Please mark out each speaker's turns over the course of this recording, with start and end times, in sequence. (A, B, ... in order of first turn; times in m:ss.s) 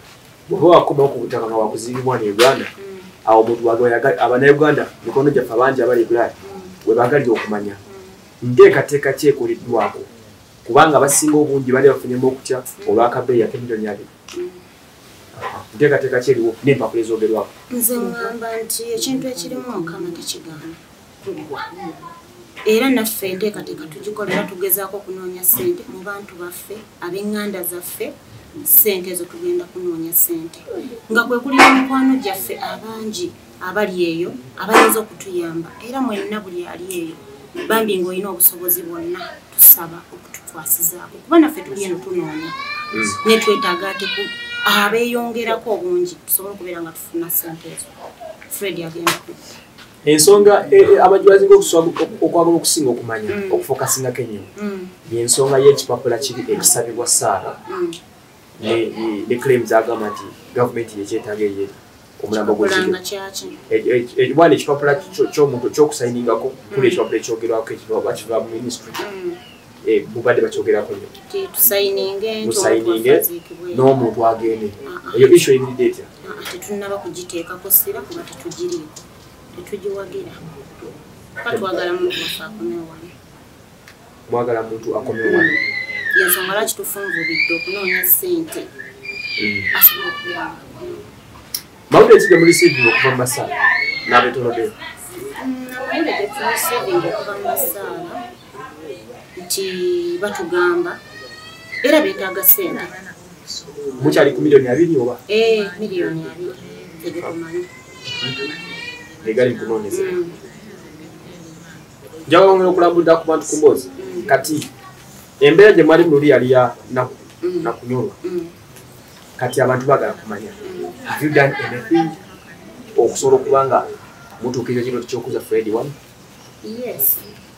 0:00.5-0:02.7 A
0:02.8-0:03.1 B
0:03.2-0:07.8 A
0:06.4-0:06.8 B
0:07.9-0:08.2 B
0:08.4-0:10.1 A
0:10.6-0:14.1 A
0:12.8-0:13.1 B
0:14.3-0:14.7 B
0:15.3-0:17.5 A
0:17.7-0:21.9 B
0:22.6-0:42.6 B
0:42.9-0:43.2 A
0:43.2-0:47.9 B
0:48.5-0:49.4 B
0:50.0-0:54.5 A
0:53.3-0:53.6 B
0:54.6-0:55.0 B
0:55.1-0:57.6 A
0:57.7-0:58.0 B
0:58.6-1:03.0 A
1:02.3-1:03.6 B
1:03.7-1:09.0 A
1:06.7-1:07.0 B
1:09.0-1:09.4 B
1:09.8-1:11.1 A
1:11.3-1:13.8 B
1:12.4-1:16.1 A
1:14.8-1:15.5 B
1:16.2-1:19.0 B
1:19.5-1:20.4 B
1:21.4-1:23.1 B
1:24.3-1:25.7 A
1:25.2-1:25.6 B
1:26.1-1:28.7 B
1:29.4-1:29.7 A
1:29.7-1:31.1 B
1:31.9-1:34.7 A
1:35.4-1:38.2 B
1:39.4-1:41.0 B
1:41.8-1:42.9 B
1:44.0-1:45.2 A
1:45.3-1:47.7 B
1:48.1-1:48.4 A
1:49.2-1:50.2 A
1:49.9-1:50.4 B
1:52.3-1:54.7 A
1:54.0-1:54.3 B
1:55.4-1:58.2 A
1:57.4-1:58.6 B
1:59.4-2:02.2 A
2:00.6-2:01.0 B
2:03.0-2:03.9 A
2:04.4-2:05.9 A
2:06.6-2:07.3 B